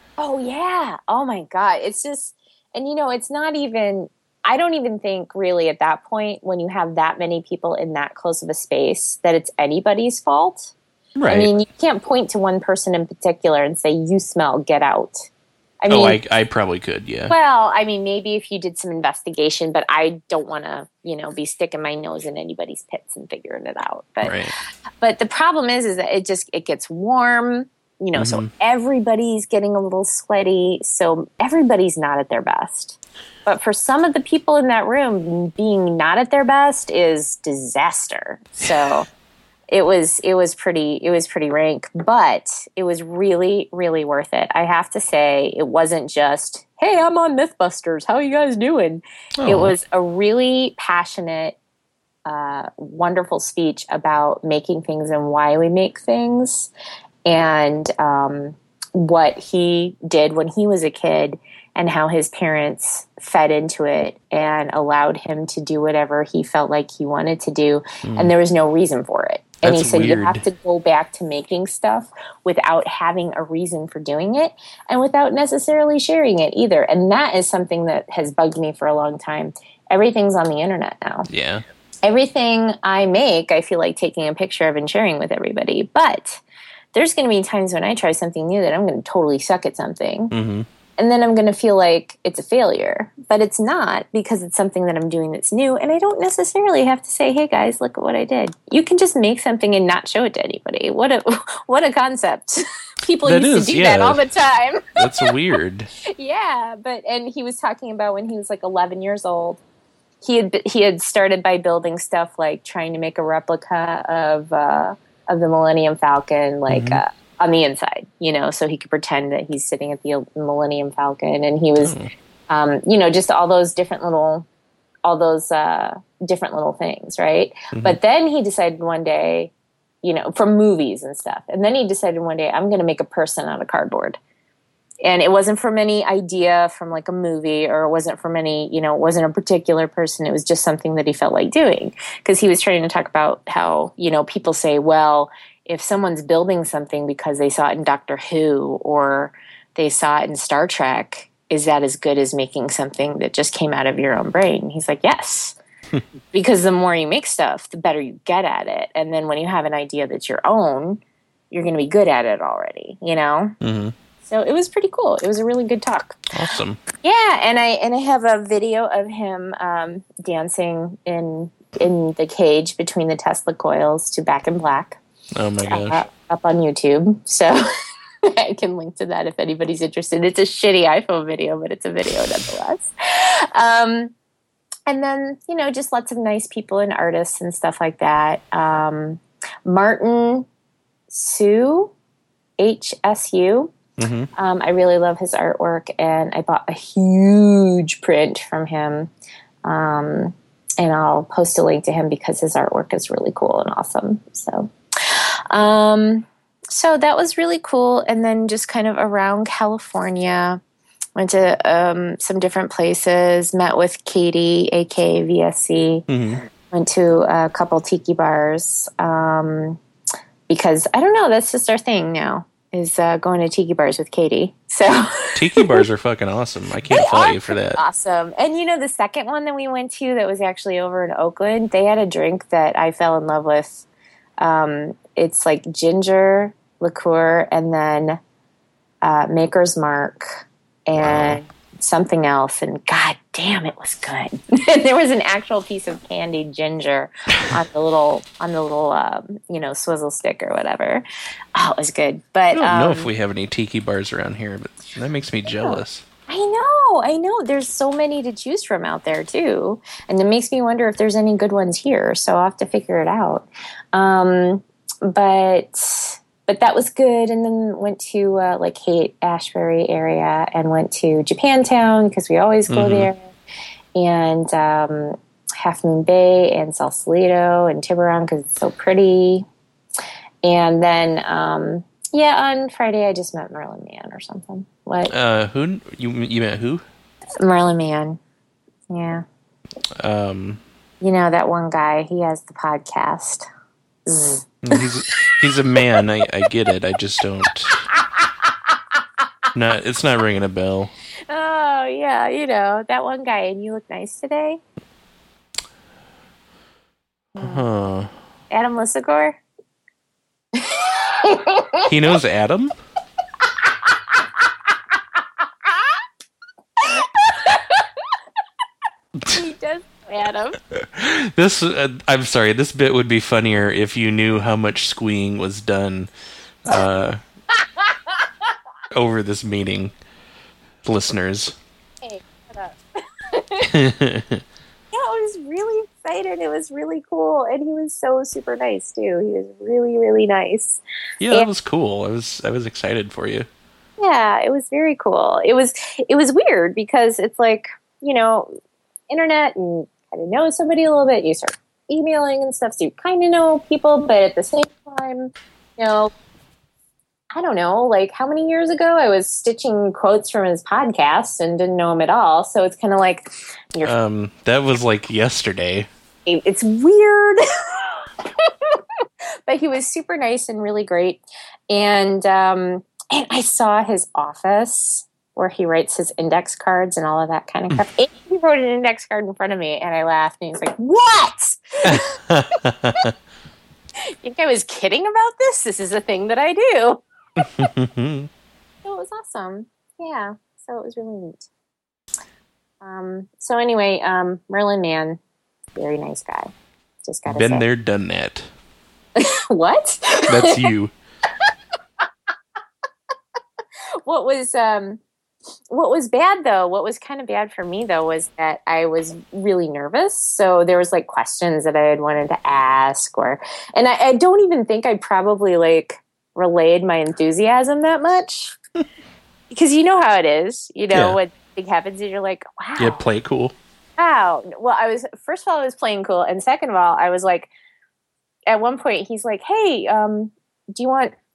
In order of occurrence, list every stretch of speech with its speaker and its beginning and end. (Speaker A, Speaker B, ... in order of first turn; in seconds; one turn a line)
Speaker A: 0.2-10.7
Speaker B: 11.2-11.5
Speaker A: 11.3-15.3
Speaker A: 15.8-16.2
Speaker B: 15.9-17.3
Speaker A: 17.3-24.4
Speaker B: 24.2-24.5
Speaker A: 25.0-39.1
Speaker B: 28.1-28.5
Speaker A: 39.7-51.6
Speaker B: 49.4-49.7
Speaker A: 52.2-56.7
Speaker A: 57.2-81.3
Speaker B: 68.0-68.3
Speaker B: 69.6-70.4
Speaker B: 81.3-81.6
Speaker A: 82.0-86.4
Speaker A: 86.9-90.3
Speaker B: 90.3-90.7
Speaker A: 91.0-105.3
Speaker B: 103.2-104.2
Speaker B: 105.0-105.9
Speaker A: 106.0-109.6
Speaker A: 110.2-122.0
Speaker B: 116.7-117.0
Speaker B: 121.8-122.1
Speaker A: 122.5-124.5
Speaker A: 125.0-129.5
Speaker A: 130.0-134.2
Speaker A: 135.0-155.6
Speaker A: 156.3-163.5
Speaker B: 163.6-163.9
Speaker A: 164.2-166.3
Speaker B: 166.3-166.8
Speaker A: 166.9-175.0
Speaker B: 175.3-176.0
Speaker A: 175.6-177.6
Speaker A: 178.2-184.1
Speaker A: 184.9-190.5
Speaker A: 191.1-191.9
Speaker A: 192.6-193.7
Speaker B: 194.0-194.3
Speaker A: 194.3-199.1
Speaker A: 199.6-210.6
Speaker A: 211.2-219.8
Speaker B: 216.1-216.4
Speaker A: 220.5-225.8
Speaker B: 225.3-227.8
Speaker A: 226.9-233.8
Speaker A: 234.4-238.2
Speaker A: 239.0-253.1
Speaker B: 241.0-241.4
Speaker B: 252.5-256.0
Speaker A: 255.4-273.3
Speaker B: 272.7-273.1
Speaker A: 273.9-279.4
Speaker A: 280.4-285.1
Speaker B: 285.1-286.8
Speaker A: 287.4-288.2
Speaker A: 288.9-289.2
Speaker B: 290.0-290.6
Speaker A: 291.0-293.5
Speaker A: 294.1-295.2
Speaker B: 294.6-297.9
Speaker A: 297.9-299.3
Speaker B: 299.5-300.9
Speaker A: 301.3-304.6
Speaker A: 307.3-307.6
Speaker B: 307.4-308.1
Speaker A: 308.5-309.4
Speaker A: 310.5-311.9
Speaker B: 311.9-312.8
Speaker A: 313.6-314.4
Speaker A: 315.4-316.0
Speaker A: 316.8-318.1
Speaker A: 319.3-320.6
Speaker B: 320.7-326.1
Speaker B: 326.6-327.2
Speaker A: 327.5-328.5
Speaker B: 328.9-329.9
Speaker B: 330.8-331.6
Speaker A: 332.0-333.7
Speaker B: 333.7-334.4
Speaker A: 334.9-341.5
Speaker B: 341.2-343.5
Speaker A: 344.0-348.5
Speaker A: 349.1-356.1
Speaker A: 357.3-363.9
Speaker B: 363.8-365.9
Speaker A: 366.2-382.1
Speaker B: 381.8-383.1
Speaker A: 384.0-387.0
Speaker B: 387.4-388.3
Speaker A: 388.8-391.5
Speaker A: 392.8-395.2
Speaker A: 395.7-396.5
Speaker A: 397.0-397.6
Speaker B: 397.3-398.5
Speaker A: 399.1-400.6
Speaker B: 400.3-400.9
Speaker A: 404.0-405.0
Speaker A: 405.7-418.6
Speaker A: 419.5-423.0
Speaker B: 420.9-421.2
Speaker B: 422.8-423.5
Speaker A: 424.0-427.5
Speaker A: 428.5-431.1